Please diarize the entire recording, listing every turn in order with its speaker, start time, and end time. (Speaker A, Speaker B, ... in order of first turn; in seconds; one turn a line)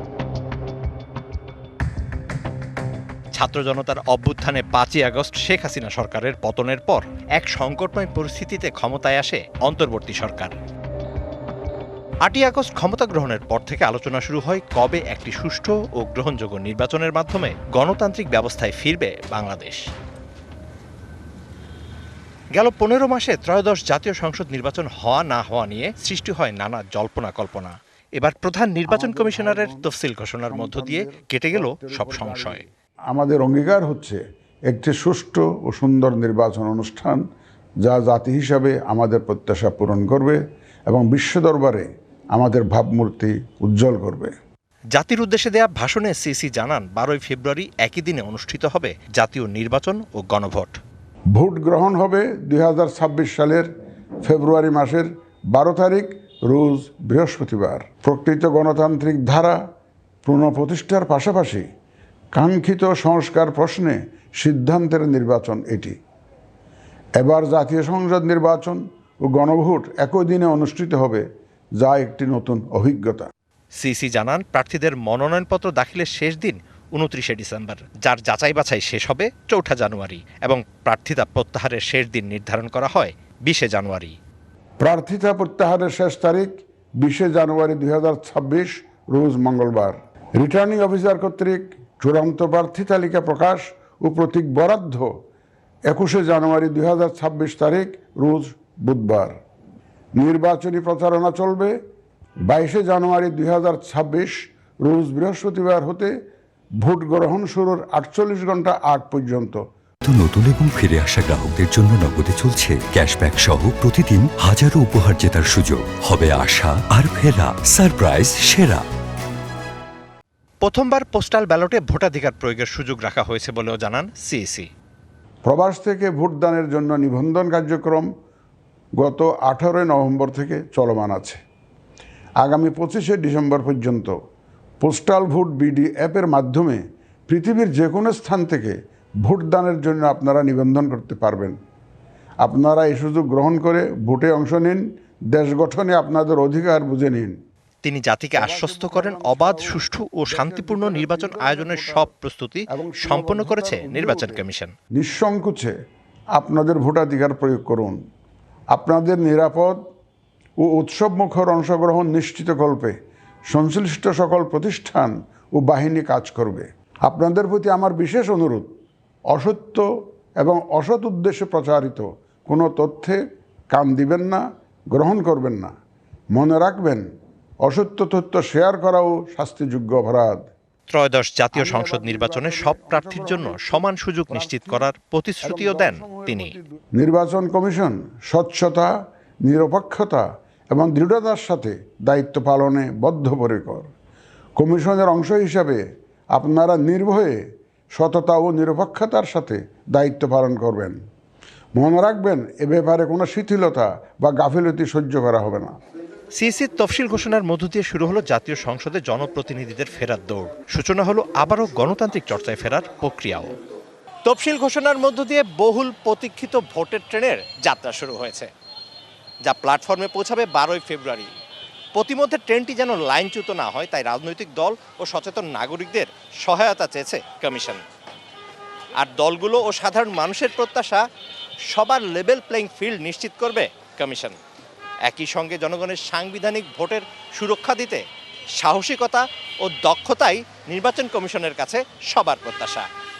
Speaker A: 3.4-10.5
Speaker A: 12.2-19.8
Speaker A: 22.6-32.6
Speaker B: 28.9-29.9
Speaker B: 30.5-37.2
Speaker B: 37.8-44.3
Speaker A: 44.9-50.8
Speaker B: 51.4-53.7
Speaker B: 54.2-59.6
Speaker B: 60.2-61.6
Speaker B: 62.3-65.9
Speaker B: 67.2-71.2
Speaker B: 71.8-73.3
Speaker A: 73.8-84.2
Speaker B: 84.8-95.1
Speaker B: 95.9-99.3
Speaker B: 100.2-101.7
Speaker B: 102.5-106.1
Speaker B: 106.8-109.6
Speaker C: 110.0-118.8
Speaker A: 120.6-124.7
Speaker B: 125.4-128.1
Speaker B: 129.0-131.4
Speaker B: 132.4-134.1
Speaker B: 134.8-141.5
Speaker B: 142.4-147.3
Speaker A: 147.8-154.7
Speaker B: 148.3-152.1
Speaker B: 152.7-154.4
Speaker B: 154.9-155.7
Speaker B: 156.3-158.0
Speaker B: 158.7-159.8
Speaker B: 160.6-162.9
Speaker B: 163.5-168.7
Speaker B: 169.3-169.8
Speaker B: 170.4-173.2
Speaker B: 173.7-175.7
Speaker B: 176.3-177.0
Speaker B: 177.6-180.4
Speaker A: 180.9-186.6
Speaker B: 181.5-184.9
Speaker B: 185.4-188.9
Speaker B: 189.4-193.9
Speaker B: 194.6-195.8
Speaker B: 196.3-197.4
Speaker B: 197.9-201.0
Speaker B: 201.8-205.7
Speaker A: 206.3-213.5
Speaker A: 214.2-218.5
Speaker A: 219.4-221.3
Speaker A: 221.9-227.8
Speaker A: 229.0-231.0
Speaker A: 231.7-234.4
Speaker A: 235.1-238.0
Speaker A: 238.6-242.9